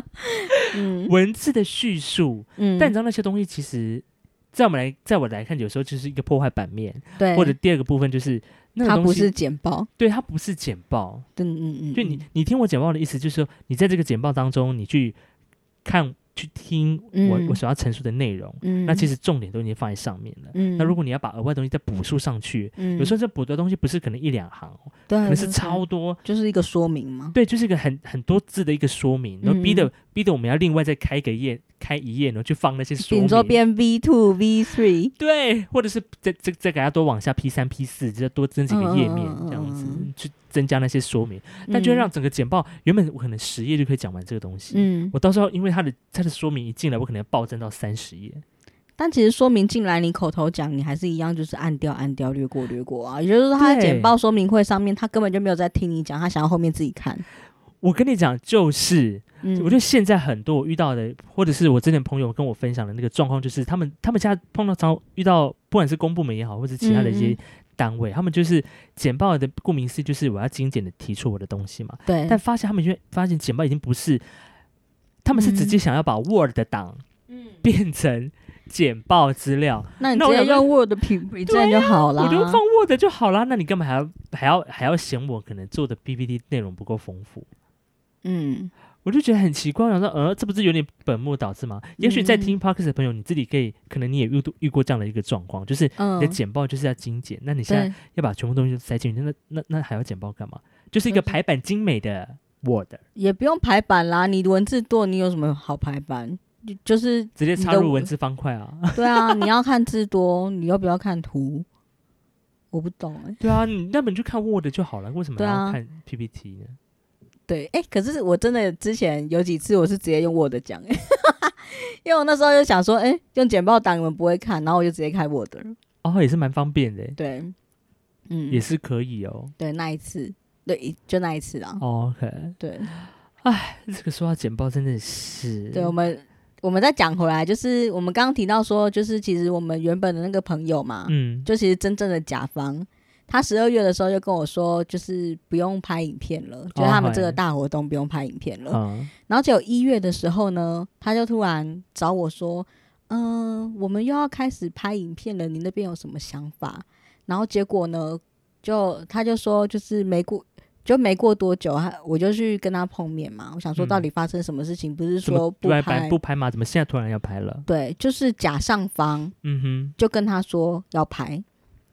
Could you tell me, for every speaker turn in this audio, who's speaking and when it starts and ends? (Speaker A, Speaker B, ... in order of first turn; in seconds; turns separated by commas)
Speaker A: 0.3-1.1, Speaker B: 0.5-9.3, Speaker A: 2.6-2.9, Speaker A: 7.2-7.6, Speaker A: 8.8-9.9, Speaker B: 10.0-11.3, Speaker A: 11.4-12.2, Speaker B: 11.9-15.2, Speaker B: 15.8-26.2, Speaker A: 17.1-17.6, Speaker A: 18.6-19.1, Speaker A: 20.5-21.0, Speaker A: 22.8-23.1, Speaker A: 25.1-27.4, Speaker B: 27.3-33.6, Speaker A: 29.4-29.9, Speaker A: 33.0-35.1, Speaker B: 35.2-48.4, Speaker A: 38.7-40.1, Speaker A: 41.7-42.1, Speaker A: 44.7-45.1, Speaker A: 49.0-57.2, Speaker B: 53.6-54.1, Speaker B: 57.8-74.2, Speaker A: 59.4-59.8, Speaker A: 66.8-67.4, Speaker A: 72.1-72.4, Speaker B: 75.2-77.0, Speaker A: 75.3-75.8, Speaker B: 77.6-80.7, Speaker A: 80.0-82.6, Speaker B: 81.5-87.5, Speaker A: 88.2-88.7, Speaker B: 89.0-103.0, Speaker A: 92.0-92.6, Speaker A: 96.0-96.4, Speaker A: 97.7-98.0, Speaker A: 101.1-101.3, Speaker A: 103.2-108.1, Speaker B: 107.4-109.5, Speaker A: 109.0-111.7, Speaker A: 112.7-113.4, Speaker B: 113.4-116.8, Speaker A: 115.4-115.8, Speaker A: 117.5-125.8, Speaker B: 126.0-127.2, Speaker A: 127.2-127.5, Speaker A: 128.3-128.6, Speaker B: 128.5-129.5, Speaker A: 129.6-131.8, Speaker B: 131.8-132.6, Speaker A: 132.6-132.9, Speaker B: 133.4-135.9, Speaker A: 135.7-166.2, Speaker B: 141.1-141.5, Speaker B: 146.8-147.4, Speaker B: 148.7-149.1, Speaker B: 163.8-164.1, Speaker B: 165.2-167.7, Speaker A: 167.7-169.3, Speaker B: 169.4-169.9, Speaker A: 170.0-171.4